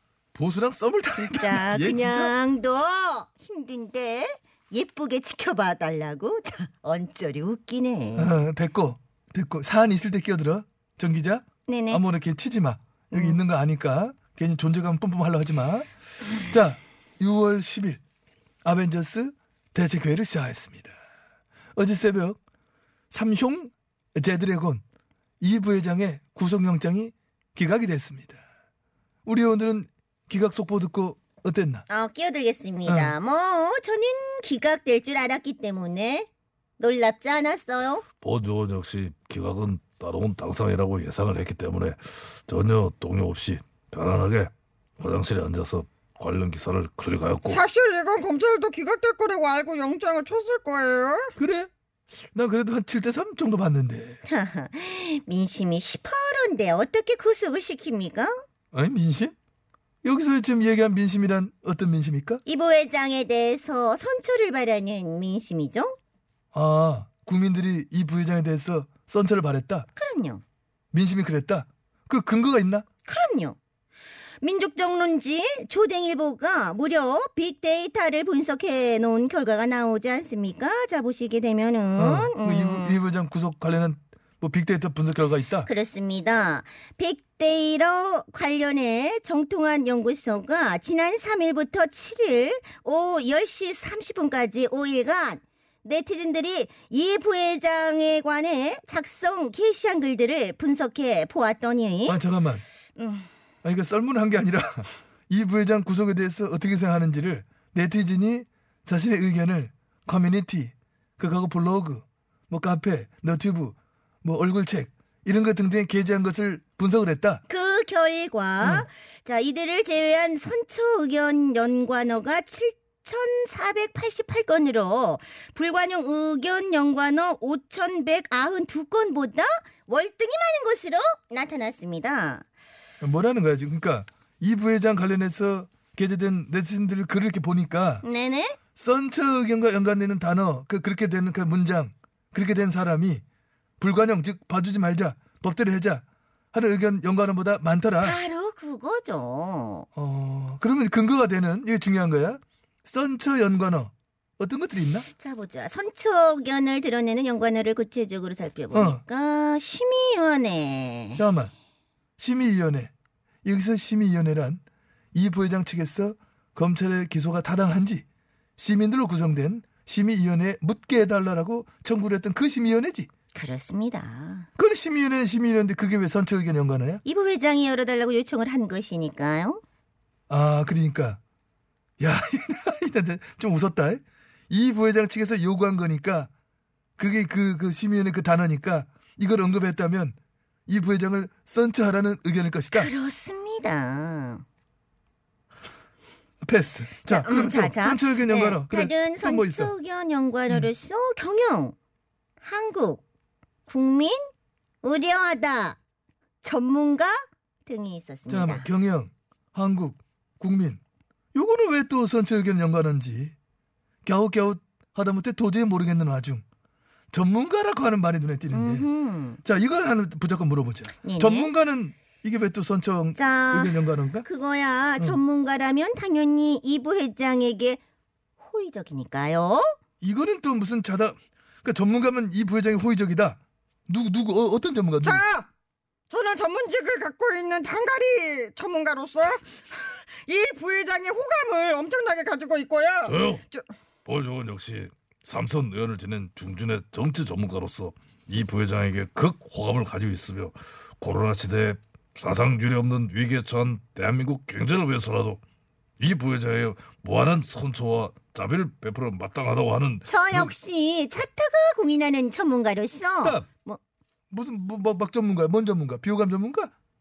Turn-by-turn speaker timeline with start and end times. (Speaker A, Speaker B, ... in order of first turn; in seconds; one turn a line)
Speaker A: 0.3-2.3
Speaker B: 1.1-8.3
Speaker A: 8.2-15.9
Speaker B: 11.7-12.0
Speaker A: 16.4-18.0
Speaker A: 18.6-20.9
Speaker A: 21.8-22.4
Speaker A: 23.1-24.8
Speaker A: 25.4-28.4
Speaker A: 29.3-31.9
Speaker B: 31.9-38.0
Speaker A: 32.9-33.1
Speaker C: 38.2-47.6
Speaker D: 47.5-51.3
Speaker A: 51.4-51.7
Speaker A: 52.3-54.2
Speaker B: 54.2-58.4
Speaker A: 58.7-59.4
Speaker A: 60.0-62.4
Speaker B: 62.5-66.0
Speaker A: 66.5-69.9
Speaker B: 70.0-70.4
Speaker A: 70.9-72.9
Speaker B: 73.0-73.6
Speaker B: 74.4-83.0
Speaker A: 82.0-85.7
Speaker B: 85.7-102.2
Speaker A: 102.1-102.6
Speaker B: 103.0-103.3
Speaker A: 103.6-117.4
Speaker B: 117.5-132.4
Speaker A: 118.6-118.9
Speaker A: 133.0-138.1
Speaker B: 138.0-138.6
Speaker A: 138.8-143.2
Speaker A: 143.8-148.2
Speaker B: 148.0-149.9
Speaker A: 149.9-155.1
Speaker B: 155.1-161.2
Speaker A: 158.7-159.0
Speaker A: 161.2-161.5
Speaker A: 162.2-162.9
Speaker A: 163.4-164.6
Speaker A: 165.1-168.1
Speaker A: 168.6-173.1
Speaker B: 173.3-174.5
Speaker A: 174.6-177.0
Speaker B: 177.1-179.6
Speaker A: 180.3-181.2
Speaker A: 182.0-186.3
Speaker A: 187.0-190.2
Speaker A: 190.7-192.9
Speaker B: 192.7-194.4
Speaker A: 196.4-199.7
Speaker B: 197.1-201.8
Speaker B: 202.4-203.0
Speaker B: 203.7-204.2
Speaker B: 204.8-205.8
Speaker B: 206.4-208.7
Speaker A: 208.3-210.8
Speaker A: 211.3-213.3
Speaker A: 214.1-216.4
Speaker A: 217.1-218.9
Speaker B: 218.5-219.4
Speaker A: 219.4-224.3
Speaker B: 221.0-221.5
Speaker B: 223.2-227.8
Speaker B: 228.4-229.7
Speaker A: 230.0-235.2
Speaker D: 235.0-235.5
Speaker D: 236.1-243.7
Speaker C: 243.1-243.4
Speaker C: 244.1-255.4
Speaker C: 256.0-260.5
Speaker B: 260.1-263.8
Speaker A: 264.3-266.7